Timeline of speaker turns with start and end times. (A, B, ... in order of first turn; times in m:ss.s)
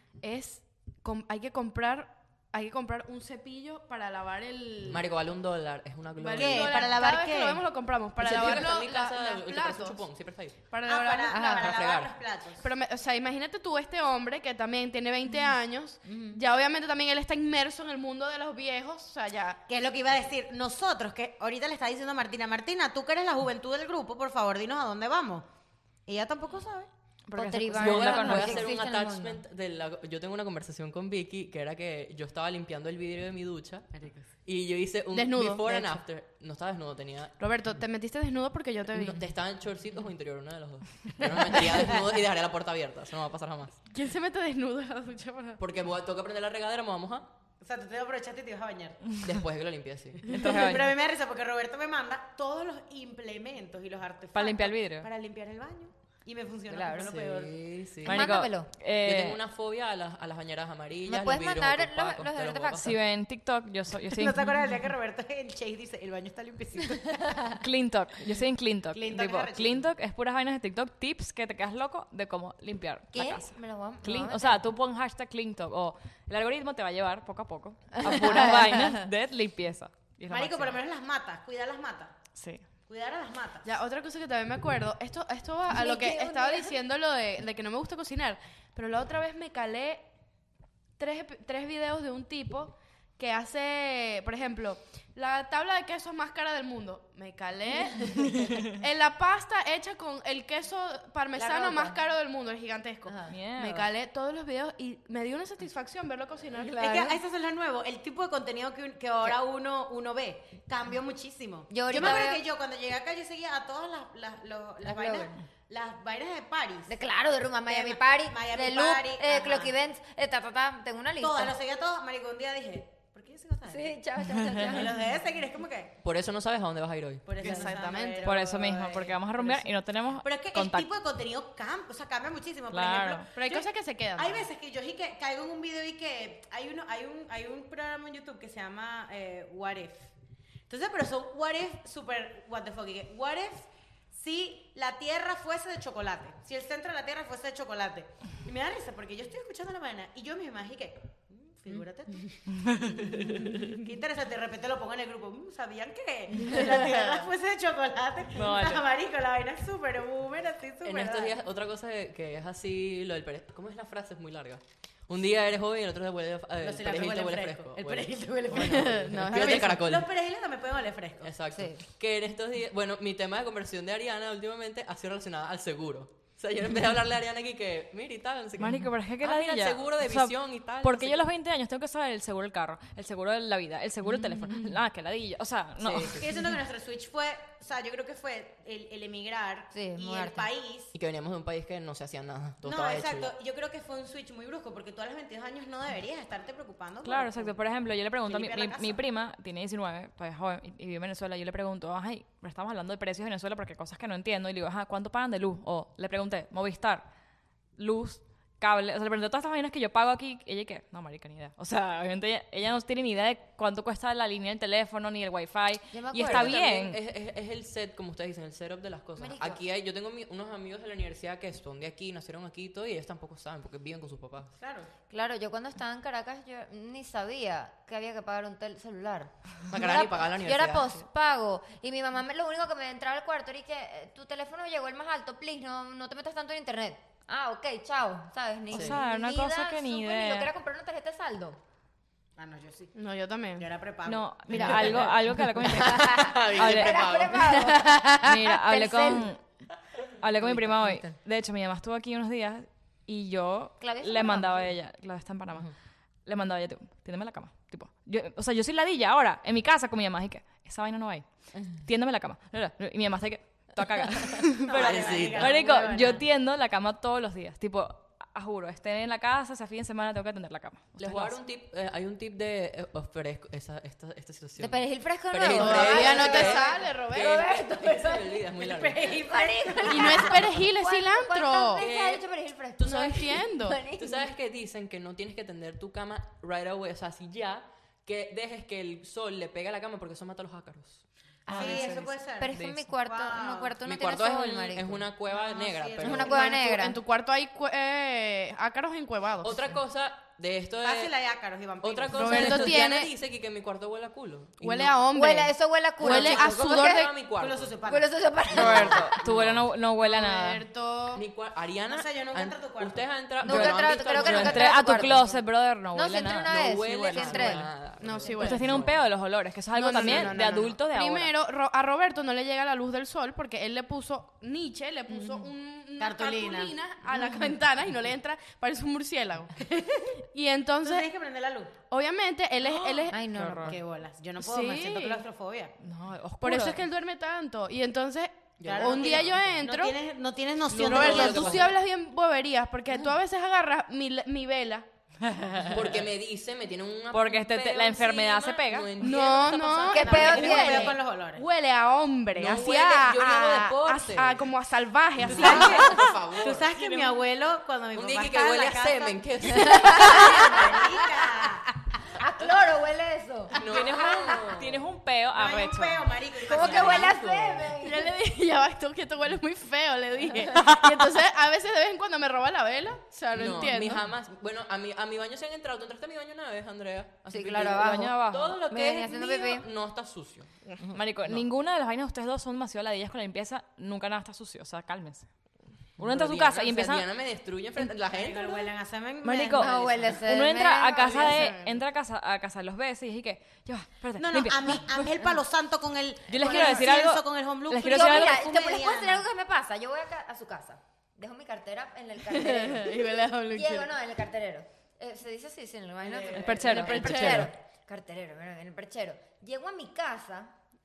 0:00.2-0:05.1 A
0:04.8-0:07.0 B
0:06.2-0:10.0 A
0:06.4-0:07.6 C
0:08.2-0:10.6 B
0:10.7-0:11.9 A
0:10.9-0:12.7 C
0:11.4-0:12.1 B
0:12.6-0:19.6 A
0:16.1-0:16.4 D
0:19.7-0:25.5 C
0:26.1-0:26.9 C
0:27.3-0:28.7 E
0:27.4-0:29.4 D
0:27.8-0:33.9 B
0:33.9-0:34.3 C
0:34.4-0:37.3 B
0:35.1-0:36.0 A
0:37.4-0:39.2 A
0:38.9-0:43.8 B
0:43.9-0:45.6 A
0:45.6-0:47.3 B
0:47.6-0:49.2 C
0:49.2-0:50.3 B
0:50.3-0:50.9 E
0:50.4-0:57.6 C
0:54.3-0:55.1 E
0:56.7-0:57.2 D
0:57.0-0:58.3 B
0:58.0-0:58.7 D
0:58.1-0:59.4 E
0:58.8-1:03.0 B
1:01.1-1:03.0 D
1:02.8-1:04.4 E
1:04.1-1:07.6 C
1:07.6-1:20.8 E
1:08.9-1:09.9 C
1:13.1-1:14.6 D
1:18.0-1:19.0 D
1:20.3-1:22.2 C
1:22.4-1:22.6 E
1:22.9-1:23.7 C
1:23.6-1:30.0 A
1:25.7-1:26.8 D
1:31.0-1:47.2 A
1:41.4-1:41.8 C
1:41.4-1:42.0 D
1:43.3-1:43.9 E
1:46.6-1:56.9 C
1:51.7-1:52.4 D
1:54.8-1:55.4 D
1:56.9-2:01.6 D
1:57.7-1:59.7 C
2:01.2-2:06.0 C
2:03.7-2:05.1 D
2:04.4-2:04.7 E
2:06.0-2:07.5 B
2:07.3-2:09.6 C
2:07.4-2:08.4 A
2:08.2-2:10.9 E
2:10.2-2:20.1 C
2:12.7-2:13.2 E
2:13.4-2:14.5 A
2:20.7-2:41.4 C
2:33.1-2:33.7 B
2:38.4-2:38.8 E
2:40.8-2:50.1 B
2:46.6-2:51.3 C
2:48.6-2:49.8 A
2:51.2-3:01.3 B
2:51.5-2:51.8 D
2:58.6-3:06.2 E
3:04.1-3:04.7 D
3:05.8-3:06.4 B
3:06.2-3:10.9 C
3:09.7-3:10.5 D
3:10.9-3:13.3 B
3:12.6-3:17.6 C
3:17.0-3:27.1 E
3:18.2-3:19.0 C
3:27.8-3:37.0 E
3:35.9-3:36.6 D
3:36.2-3:44.5 B
3:39.2-3:39.6 D
3:44.6-3:44.9 C
3:45.1-4:01.6 D
3:49.7-3:51.0 B
3:58.7-3:59.0 B
3:58.7-4:00.5 E
4:02.4-4:03.0 C
4:03.0-4:03.6 A
4:03.6-4:05.1 C
4:04.0-4:07.1 E
4:04.5-4:07.6 B
4:05.9-4:09.3 D
4:08.2-4:09.4 E
4:10.2-4:15.7 E
4:10.4-4:11.0 B
4:13.8-4:14.8 D
4:16.2-4:31.4 E
4:24.6-4:26.2 C
4:24.7-4:25.6 B
4:31.0-4:39.2 B
4:34.6-4:44.2 D
4:35.5-4:37.4 A
4:38.6-4:40.5 C
4:39.9-4:41.9 A
4:41.8-4:42.2 B
4:42.8-4:51.0 B
4:42.8-4:43.8 A
4:51.5-4:52.8 E
4:51.5-4:53.8 C
4:51.5-4:55.1 D
4:53.8-4:56.4 B
4:55.3-4:56.4 C
4:56.0-4:57.0 D
4:56.2-4:59.6 A
4:59.4-5:01.1 B
5:00.8-5:02.8 C
5:01.8-5:05.0 B
5:02.1-5:03.1 A
5:04.6-5:07.1 A
5:05.1-5:07.1 D
5:06.0-5:07.8 B
5:07.4-5:09.0 C
5:07.8-5:09.2 D
5:08.5-5:10.6 E
5:09.2-5:09.7 B
5:10.0-5:11.2 A
5:11.1-5:15.2 B
5:11.9-5:13.1 C
5:13.4-5:15.4 D
5:13.5-5:17.7 E
5:15.9-5:17.7 D
5:16.5-5:19.0 B
5:18.0-5:18.8 A
5:18.4-5:21.3 E
5:19.7-5:29.6 A
5:20.0-5:20.3 B
5:26.0-5:26.8 C
5:29.6-5:30.2 C
5:30.3-5:31.1 A
5:30.8-5:31.7 C
5:31.9-5:33.2 A
5:32.6-5:33.8 E
5:33.1-5:33.8 D
5:33.6-5:35.7 C
5:34.4-5:35.2 A
5:35.8-5:36.8 E
5:36.4-5:40.0 A
5:38.6-5:39.6 B
5:38.6-5:41.7 C
5:40.7-5:41.7 B
5:40.7-5:44.9 A
5:45.3-5:45.8 E
5:45.7-5:50.7 B
5:47.1-5:48.9 E
5:49.0-5:56.1 A
5:49.9-5:51.0 D
5:50.0-5:51.5 C
5:52.3-5:54.4 B
5:55.2-5:56.7 B
5:55.3-6:01.7 C
5:56.7-5:57.2 E
5:58.0-6:00.7 B
5:59.5-6:01.2 A
5:59.7-6:00.6 D
6:02.1-6:04.6 D
6:03.5-6:04.8 B
6:03.7-6:06.0 E
6:05.3-6:07.2 C
6:06.4-6:08.1 D
6:06.7-6:07.7 B
6:07.7-6:14.0 A
6:13.3-6:20.5 B
6:17.3-6:19.7 D
6:17.7-6:18.6 E
6:20.9-6:25.3 E
6:26.0-6:27.1 E
6:26.0-6:28.7 B
6:28.1-6:30.2 C
6:29.2-6:35.1 E
6:29.5-6:31.5 D
6:31.0-6:31.8 A
6:34.2-6:39.2 C
6:36.3-6:38.4 E
6:37.9-6:50.5 D
6:42.3-6:43.9 A
6:46.3-6:47.5 E
6:46.5-6:47.5 B
6:46.9-6:47.4 A